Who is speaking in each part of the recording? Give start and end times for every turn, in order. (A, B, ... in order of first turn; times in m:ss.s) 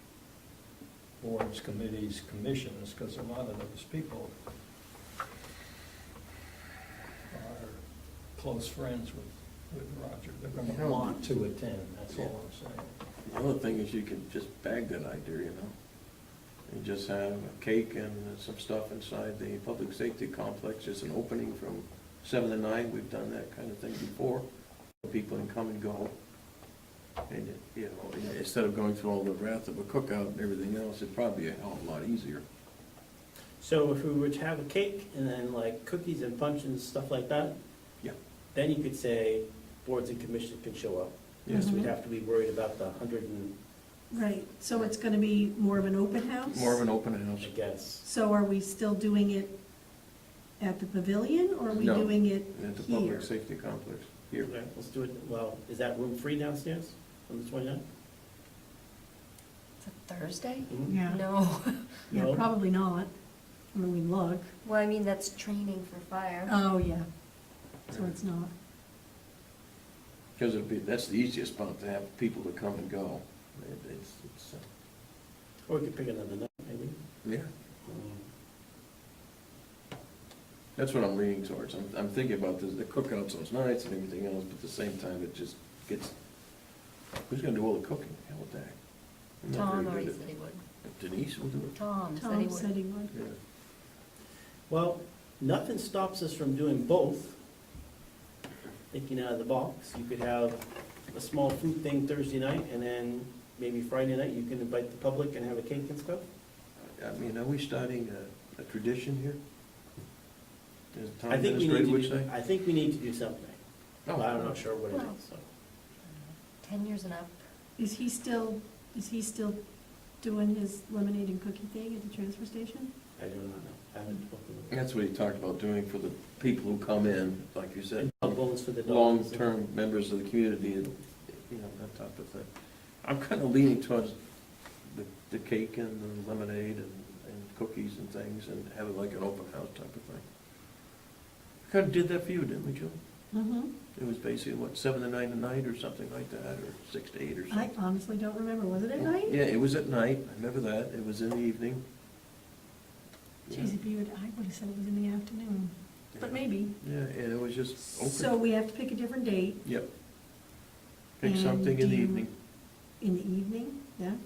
0:01.2-0:04.3 A
0:07.3-0:07.8 A
0:08.3-0:12.9 A
0:10.6-0:11.2 B
0:13.2-0:15.7 B
0:16.7-0:24.4 B
0:25.0-0:26.1 B
0:27.3-0:32.4 B
0:33.6-0:37.6 C
0:38.5-0:43.6 C
0:41.4-0:41.8 B
0:41.5-0:41.9 D
0:44.1-0:46.8 D
0:46.5-0:47.5 B
0:47.4-0:48.0 C
0:48.0-0:49.6 D
0:50.6-0:53.3 D
0:51.7-0:54.5 B
0:54.4-0:57.8 C
0:59.8-1:02.0 E
1:00.9-1:01.2 D
1:02.1-1:03.1 D
1:02.1-1:02.4 C
1:03.7-1:04.4 D
1:04.6-1:06.5 E
1:06.5-1:07.0 D
1:07.9-1:08.5 D
1:10.4-1:14.6 B
1:15.7-1:17.0 C
1:17.2-1:17.5 B
1:17.8-1:18.2 C
1:20.8-1:26.1 B
1:27.3-1:28.8 B
1:29.4-1:31.8 B
1:29.5-1:30.6 E
1:31.7-1:32.7 E
1:32.2-1:33.1 D
1:34.7-1:37.4 C
1:38.9-1:46.2 C
1:47.0-1:49.4 B
1:50.9-1:52.3 B
1:51.3-1:55.4 C
1:54.0-1:54.4 B
1:54.9-1:55.2 E
1:56.6-1:57.4 E
1:57.8-1:59.6 D
2:00.2-2:02.9 D
2:03.2-2:04.7 C
2:04.7-2:12.5 B
2:08.0-2:09.4 C
2:13.0-2:14.2 B
2:14.9-2:20.2 B
2:21.6-2:22.9 B
2:23.3-2:23.7 D
2:23.9-2:27.7 B
2:27.5-2:29.4 D
2:29.0-2:31.8 B
2:33.5-2:33.7 B
2:33.5-2:36.8 D
2:36.2-2:38.4 B
2:37.9-2:39.6 D
2:41.2-2:42.3 B
2:41.2-2:42.3 D
2:43.0-2:44.2 D